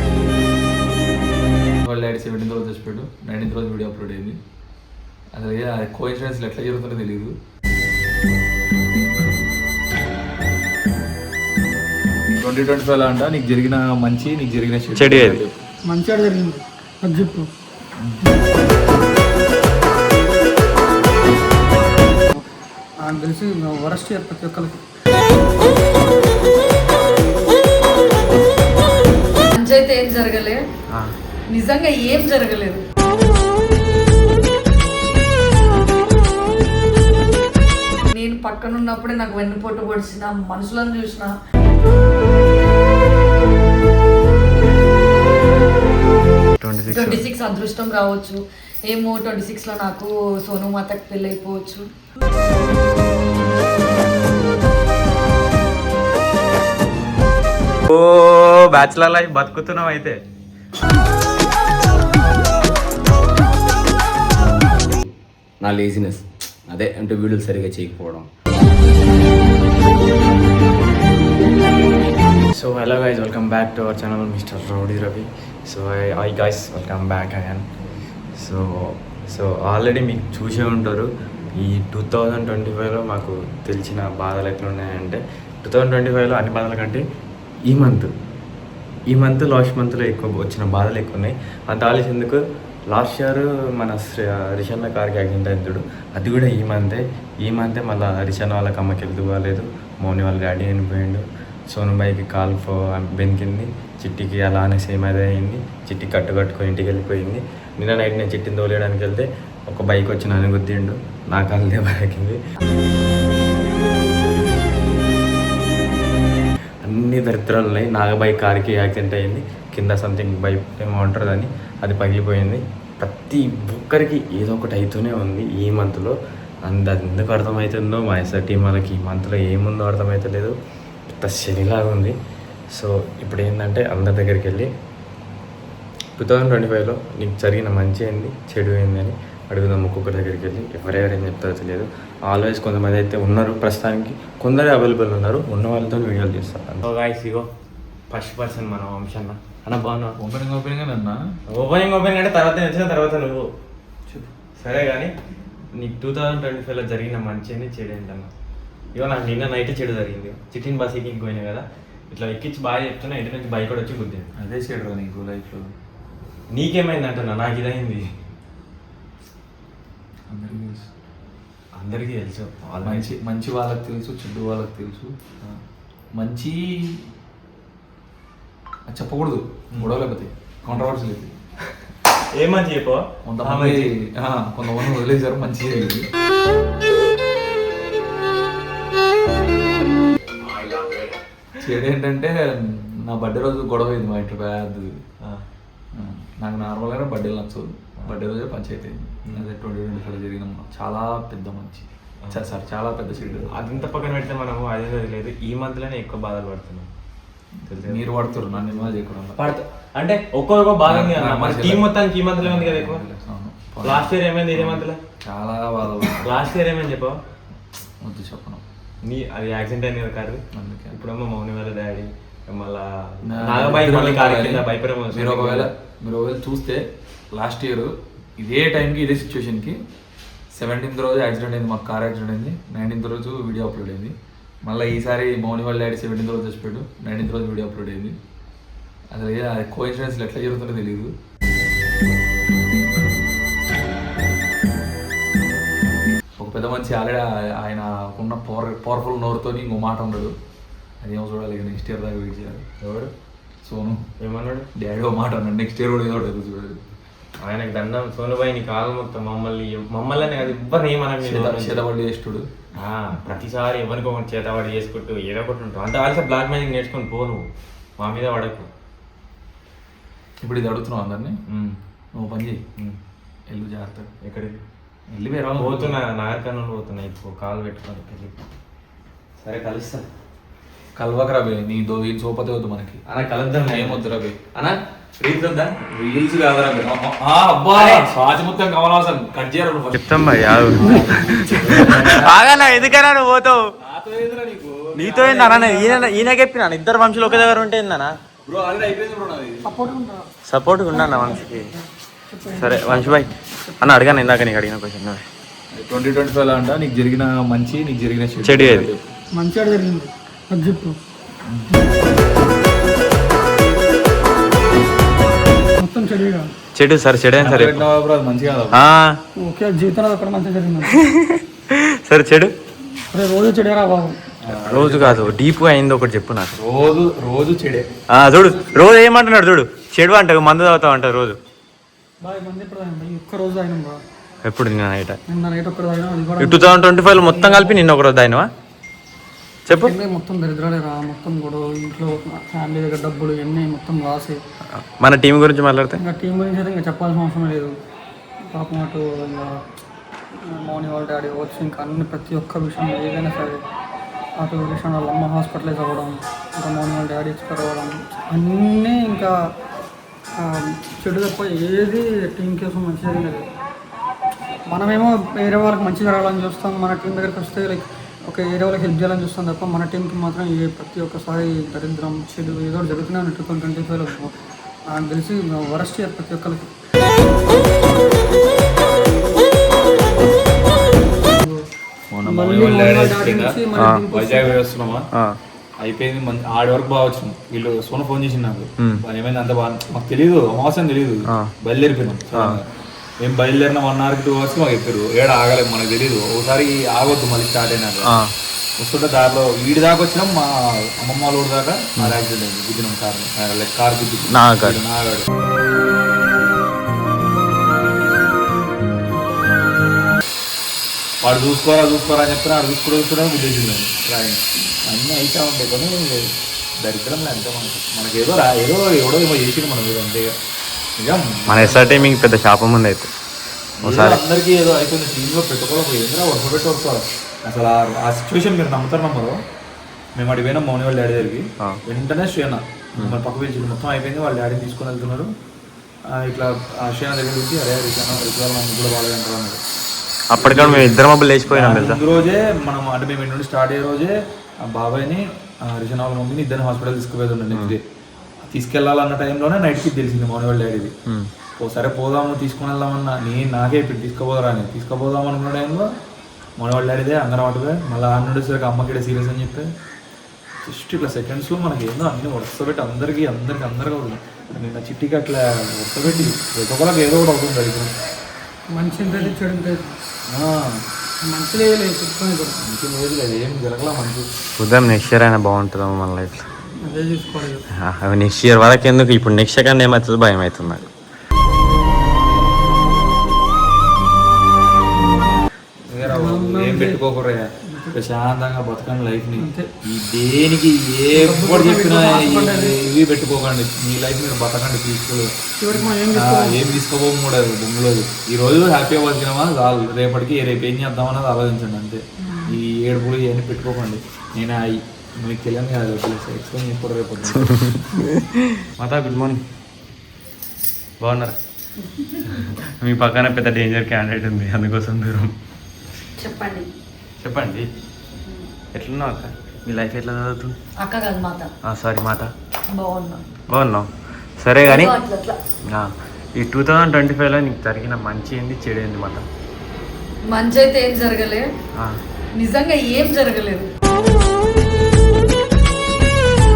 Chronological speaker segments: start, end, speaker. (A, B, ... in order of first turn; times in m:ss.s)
0:01.8-0:04.4 A
0:05.3-0:07.3 A
0:12.4-0:15.6 A
0:15.0-0:15.4 B
0:15.9-0:17.5 C
0:23.0-0:24.8 C
0:29.4-0:30.6 D
0:31.5-0:32.8 D
0:38.1-0:41.3 D
0:46.6-0:47.2 B
0:46.9-0:48.4 D
0:48.9-0:51.8 D
0:57.9-1:00.2 B
1:04.8-1:05.1 E
1:05.6-1:08.3 E
1:12.5-1:17.7 B
1:18.4-1:27.0 B
1:27.7-1:28.1 B
1:29.1-1:52.4 B
1:56.8-2:10.6 B
2:11.1-2:12.2 B
2:12.8-2:14.7 B
2:16.2-2:27.5 B
2:28.1-2:30.2 B
2:30.2-2:31.2 A
2:31.5-2:33.5 B
2:34.6-2:35.1 B
2:35.8-2:38.3 B
2:39.0-2:44.3 B
2:44.4-2:45.7 A
2:46.5-2:48.1 B
2:50.3-2:50.9 A
2:51.8-2:53.1 B
2:52.8-2:55.1 A
2:56.2-2:57.0 A
2:58.9-3:01.3 A
3:02.3-3:03.9 B
3:03.2-3:06.1 A
3:10.4-3:11.2 B
3:11.6-3:15.0 A
3:15.9-3:23.5 A
3:23.3-3:26.9 B
3:27.6-3:29.4 A
3:27.7-3:33.0 B
3:30.9-3:36.3 A
3:33.8-3:35.0 B
3:36.2-3:37.2 B
3:38.0-3:38.6 A
3:39.0-3:45.7 B
3:40.5-3:41.0 A
3:43.3-3:49.8 A
3:50.5-3:58.2 A
3:59.1-4:01.1 A
4:06.4-4:10.3 A
4:11.0-4:12.6 A
4:12.8-4:13.1 B
4:13.6-4:14.0 A
4:14.2-4:14.7 B
4:14.8-4:16.8 A
4:17.4-4:21.8 B
4:21.2-4:22.4 A
4:22.8-4:27.4 B
4:28.0-4:28.7 B
4:30.4-4:31.4 A
4:31.5-4:31.7 B
4:32.2-4:32.7 A
4:33.5-4:34.1 A
4:34.2-4:34.6 B
4:35.1-4:36.0 A
4:35.6-4:38.4 B
4:39.4-4:40.0 B
4:41.0-4:43.0 A
4:43.1-4:44.8 B
4:43.6-4:44.5 A
4:45.2-4:50.0 A
4:47.8-4:48.1 B
4:49.9-4:53.6 B
4:50.8-4:52.4 A
4:53.8-4:56.2 A
4:55.0-4:58.1 B
4:58.5-4:59.7 A
4:59.6-5:00.3 C
5:00.5-5:01.8 B
5:00.9-5:04.1 C
5:02.5-5:05.2 B
5:05.7-5:09.1 A
5:08.4-5:08.9 B
5:09.4-5:11.0 C
5:15.8-5:16.5 C
5:16.8-5:17.8 B
5:17.4-5:18.8 A
5:18.7-5:19.2 B
5:19.4-5:21.0 C
5:20.9-5:22.5 B
5:23.1-5:24.2 C
5:24.4-5:25.3 A
5:24.5-5:26.6 B
5:26.6-5:27.9 A
5:28.1-5:31.4 B
5:32.2-5:34.0 C
5:34.4-5:35.2 B
5:35.3-5:37.8 C
5:36.4-5:38.5 B
5:39.7-5:40.0 B
5:39.7-5:44.4 C
5:44.7-5:46.0 B
5:46.0-5:47.7 C
5:48.5-5:49.6 C
5:50.4-5:53.6 C
5:54.4-5:59.4 C
6:00.4-6:03.5 C
6:04.7-6:14.3 C
6:14.9-6:16.7 C
6:21.3-6:21.6 C
6:22.1-6:25.1 A
6:22.2-6:24.6 C
6:25.1-6:25.4 B
6:25.8-6:32.6 A
6:31.3-6:31.5 B
6:32.3-6:32.6 B
6:33.2-6:38.1 A
6:38.0-6:38.3 B
6:38.8-6:45.3 A
6:44.3-6:44.8 B
6:51.2-6:56.2 A
6:56.8-7:00.3 A
7:01.0-7:02.2 A
7:01.5-7:03.1 B
7:03.8-7:09.4 A
7:03.8-7:04.2 B
7:10.2-7:15.3 A
7:16.1-7:19.6 A
7:20.3-7:22.0 B
7:20.4-7:27.8 A
7:28.5-7:30.9 A
7:31.6-7:35.9 A
7:36.6-7:39.7 A
7:40.7-7:47.9 A
7:48.7-7:50.0 C
7:50.3-7:50.8 A
7:51.2-7:52.6 C
7:52.5-7:54.3 A
7:54.6-7:56.5 B
7:56.8-7:57.6 C
7:57.8-8:00.9 B
8:05.9-8:27.7 A
8:06.1-8:07.0 C
8:07.6-8:08.0 C
8:09.4-8:09.7 C
8:11.1-8:12.8 C
8:15.6-8:16.8 C
8:27.4-8:29.4 B
8:31.0-8:31.4 B
8:31.8-8:32.5 D
8:32.2-8:35.3 B
8:36.2-8:36.7 D
8:37.2-8:37.7 B
8:38.8-8:40.6 B
8:40.8-8:41.5 D
8:41.6-8:42.3 B
8:42.7-8:43.2 D
8:43.5-8:43.9 B
8:44.4-8:44.9 B
8:44.6-8:45.4 D
8:45.7-8:49.2 B
8:50.3-8:51.5 D
8:52.4-8:53.7 D